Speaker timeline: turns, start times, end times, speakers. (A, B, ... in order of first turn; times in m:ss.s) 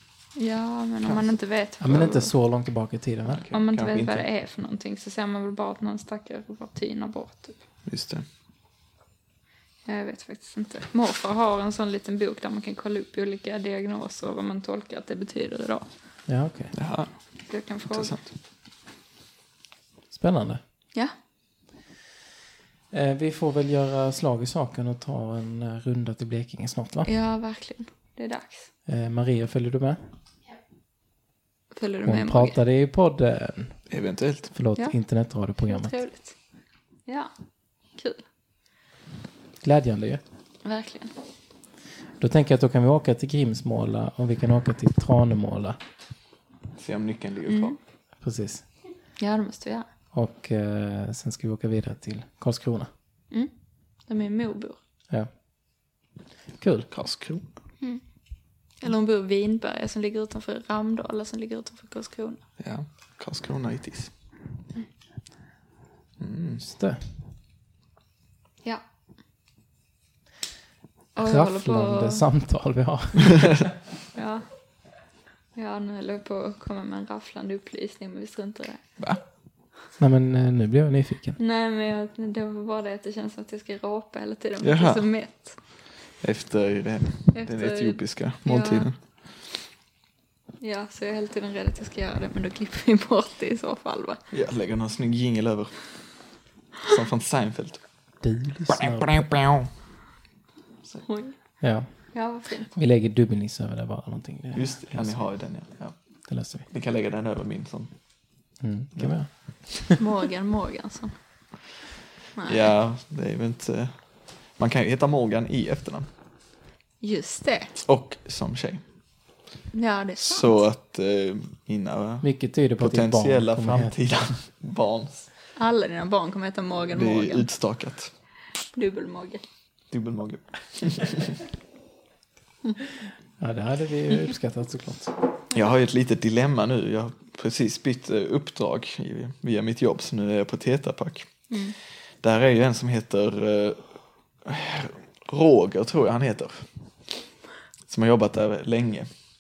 0:00.4-0:02.3 A
0:01.8-0:03.4 B
0:03.3-0:04.2 C
0:03.5-0:07.6 A
0:07.9-0:08.2 C
0:09.8-0:15.9 A
0:16.3-0:16.7 B
0:16.7-0:17.1 C
0:17.5-0:18.1 A
0:17.9-0:18.3 C
0:20.1-0:20.6 B
0:22.9-0:27.1 B
0:27.1-0:28.7 A
0:28.9-0:30.0 B
0:31.7-0:32.6 A
0:32.0-0:33.8 B
0:33.9-0:34.5 C
0:34.6-0:36.0 B
0:35.6-0:36.4 A
0:37.1-0:37.3 A
0:38.0-0:38.2 A
0:39.6-0:40.2 B
0:40.6-0:41.1 A
0:42.2-0:45.8 B
0:46.8-0:47.8 C
0:47.5-0:47.8 A
0:48.2-0:48.6 B
0:49.2-0:49.9 A
0:50.1-0:52.9 B
0:54.1-0:54.8 A
0:56.6-0:56.9 B
0:56.9-0:57.4 C
0:58.8-1:02.4 A
1:02.6-1:04.1 C
1:06.2-1:06.6 C
1:06.6-1:07.0 B
1:11.2-1:12.2 A
1:11.2-1:13.7 B
1:14.2-1:14.4 A
1:15.6-1:18.8 A
1:20.0-1:21.4 B
1:21.4-1:25.6 A
1:24.6-1:25.1 C
1:26.2-1:29.0 C
1:27.3-1:28.9 A
1:30.6-1:34.2 A
1:34.3-1:35.8 C
1:36.8-1:37.8 C
1:38.2-1:39.3 B
1:38.8-1:39.6 C
1:41.0-1:41.4 A
1:41.6-1:41.9 B
1:42.1-1:42.7 A
1:42.7-1:45.3 B
1:44.6-1:46.0 C
1:46.3-1:46.6 B
1:46.7-1:47.9 C
1:48.6-1:50.0 B
1:50.0-1:51.1 A
1:52.4-1:52.7 A
1:52.5-1:54.0 C
1:54.6-1:56.1 C
1:57.0-1:57.7 A
1:57.8-1:58.8 C
1:59.7-2:00.6 A
2:00.2-2:02.3 C
2:02.2-2:04.0 B
2:02.8-2:05.3 C
2:05.6-2:07.5 A
2:06.9-2:08.1 C
2:08.7-2:09.4 A
2:09.9-2:11.4 C
2:13.4-2:15.2 B
2:15.5-2:21.3 C
2:22.2-2:23.8 C
2:24.4-2:26.6 C
2:27.9-2:29.1 C